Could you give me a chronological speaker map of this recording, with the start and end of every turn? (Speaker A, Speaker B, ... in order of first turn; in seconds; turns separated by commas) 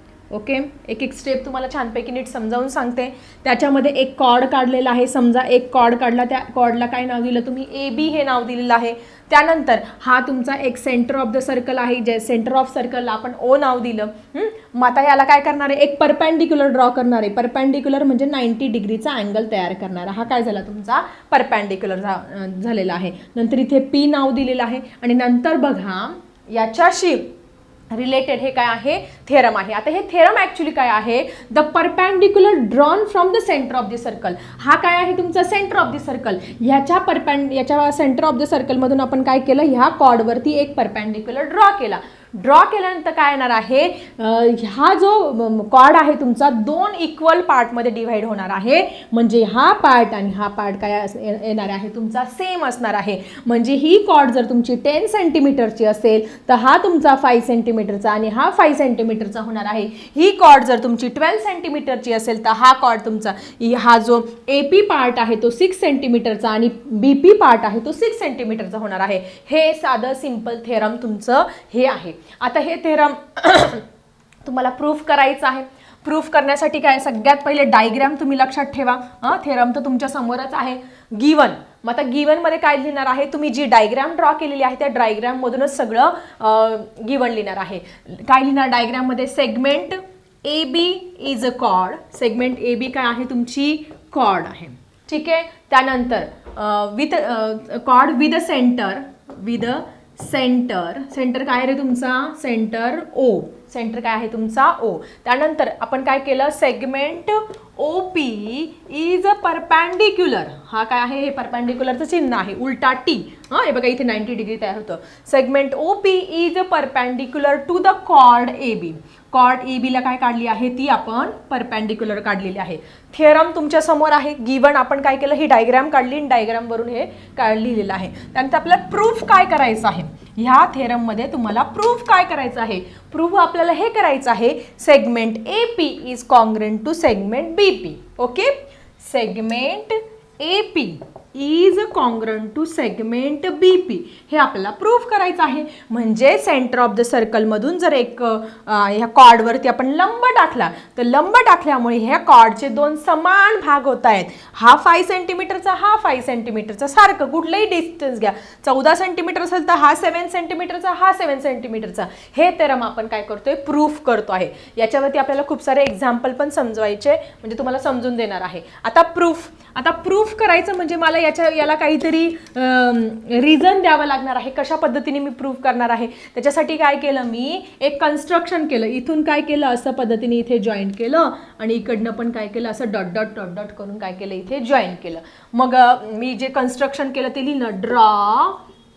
Speaker A: 0.3-27.3, Speaker A: 27.9-73.8, Speaker A: 74.4-188.6